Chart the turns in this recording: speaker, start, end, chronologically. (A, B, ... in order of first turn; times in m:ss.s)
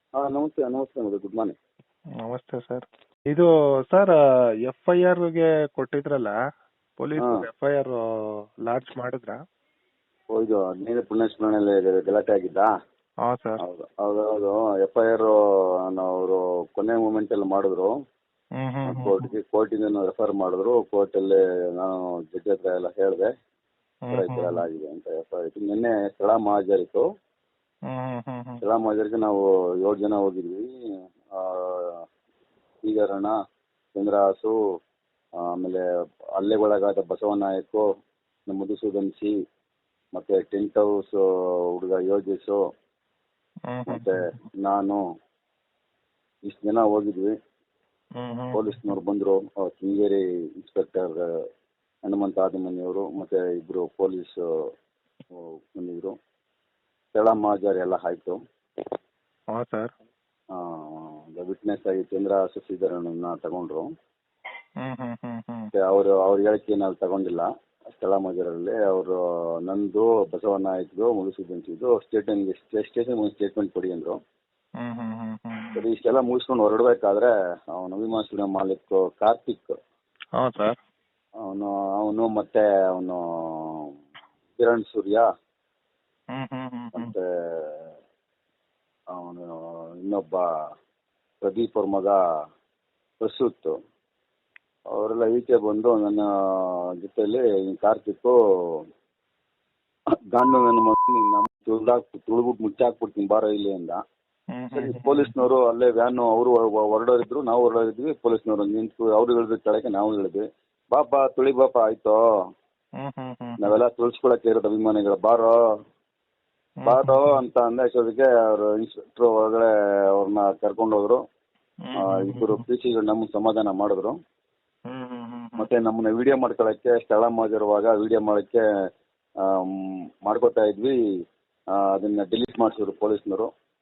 0:00.2-0:01.5 A
0:02.2-0:04.2 B
0:04.7-0:06.3 B
0:07.0-0:08.0 B
0:07.2-0:07.4 A
0:08.6-0:09.4 B
0:10.3-0:12.7 A
0:13.2-0:13.6 B
0:13.6-0:17.9 A
0:18.6-0:19.2 B
0:18.9-0:23.3 A
0:24.1-0:24.6 B
0:24.1-0:27.0 A
0:27.9-0:28.6 B
0:28.6-0:30.7 A
0:31.3-0:32.0 A
0:32.8-0:33.3 A
0:33.9-0:34.5 A
0:35.4-0:35.8 A
0:36.4-0:37.8 A
0:38.5-0:39.3 A
0:40.1-0:42.6 A
0:43.7-0:44.2 B
0:43.9-0:45.0 A
0:46.4-0:47.3 A
0:48.2-0:48.7 B
0:48.5-0:51.3 A
0:52.0-0:54.4 A
0:55.3-0:56.1 A
0:57.1-0:58.4 A
0:59.5-0:59.9 B
1:00.5-1:03.9 A
1:04.8-1:05.7 B
1:05.7-1:14.2 A
1:14.8-1:15.8 B
1:15.8-1:19.7 A
1:20.4-1:20.8 B
1:21.4-1:23.9 A
1:24.6-1:25.3 A
1:26.3-1:27.1 B
1:26.9-1:27.9 A
1:29.1-1:30.5 A
1:31.4-1:32.2 A
1:33.2-1:33.8 A
1:34.9-1:38.8 A
1:40.3-1:44.0 A
1:44.5-1:45.4 B
1:44.7-1:52.2 A
1:53.0-1:53.7 B
1:53.6-1:55.6 A
1:56.8-1:57.4 B
1:56.8-2:01.2 A
2:01.8-2:02.6 B
2:02.0-2:04.2 A
2:04.9-2:05.7 B
2:05.6-2:08.6 A
2:09.4-2:11.0 A
2:11.7-2:13.5 A